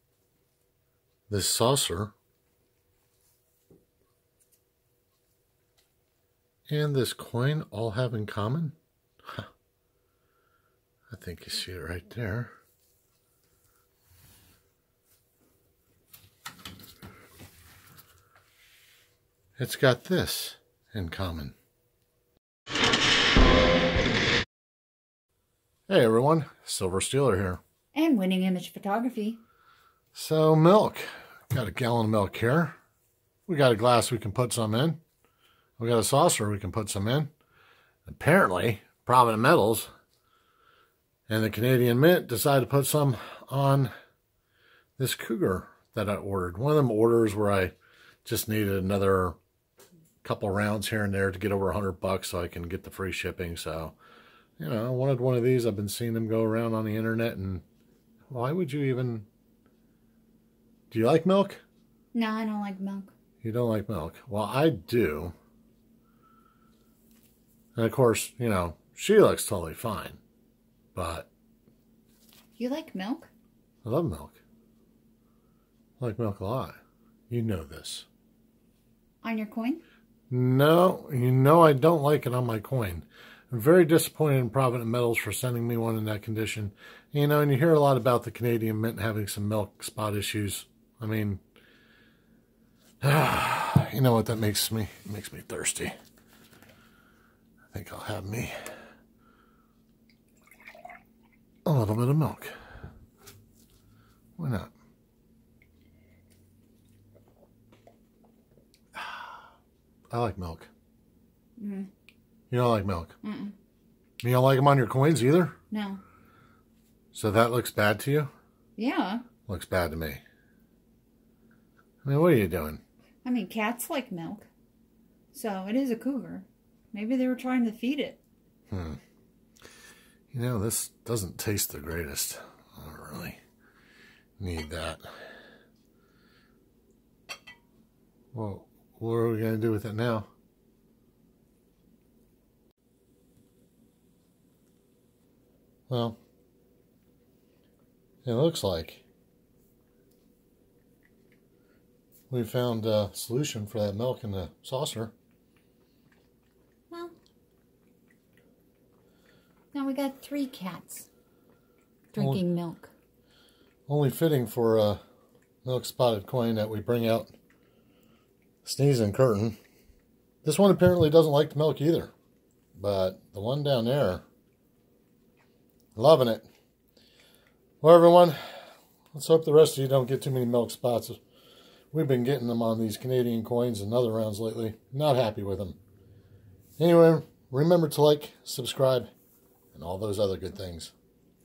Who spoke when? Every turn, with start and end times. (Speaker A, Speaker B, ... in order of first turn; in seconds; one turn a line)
Speaker A: 1.3-2.1
Speaker A: 6.7-9.5
Speaker A: 11.1-12.5
Speaker A: 19.6-21.6
Speaker A: 25.9-27.6
Speaker B: 27.9-29.4
Speaker A: 30.1-32.8
Speaker A: 33.5-35.0
Speaker A: 35.8-37.3
Speaker A: 38.1-39.9
Speaker A: 41.3-43.9
Speaker A: 45.0-47.7
Speaker A: 48.2-49.4
Speaker A: 50.2-54.0
Speaker A: 54.6-57.6
Speaker A: 58.3-59.3
Speaker A: 60.9-61.6
Speaker B: 62.1-63.1
Speaker A: 63.4-65.3
Speaker A: 67.8-70.2
Speaker A: 71.0-71.3
Speaker B: 72.6-73.3
Speaker A: 73.8-74.4
Speaker A: 76.0-78.1
Speaker B: 79.2-79.8
Speaker A: 80.3-91.4
Speaker A: 93.0-96.0
Speaker A: 97.7-98.5
Speaker A: 101.7-102.6
Speaker A: 104.4-104.7
Speaker A: 110.1-110.7
Speaker B: 111.6-111.9
Speaker A: 112.5-113.2
Speaker B: 113.2-113.5
Speaker A: 114.2-115.5
Speaker B: 115.7-116.0
Speaker A: 117.1-118.3
Speaker B: 118.8-119.3
Speaker A: 119.4-120.2
Speaker A: 122.0-122.8
Speaker B: 123.2-124.5
Speaker B: 125.3-128.2
Speaker A: 128.7-129.0
Speaker A: 130.3-133.4
Speaker A: 134.4-135.1
Speaker A: 138.3-140.3
Speaker A: 145.9-146.2
Speaker A: 148.2-149.0
Speaker A: 152.3-155.1
Speaker B: 159.7-161.1
Speaker B: 162.1-162.9
Speaker A: 162.2-162.4
Speaker A: 163.9-165.0
Speaker A: 165.6-167.3
Speaker A: 168.6-169.6
Speaker A: 170.4-172.1
Speaker A: 172.8-174.2
Speaker A: 175.9-176.5
Speaker A: 177.8-181.2
Speaker A: 181.9-185.8
Speaker A: 186.8-189.1
Speaker A: 189.7-190.9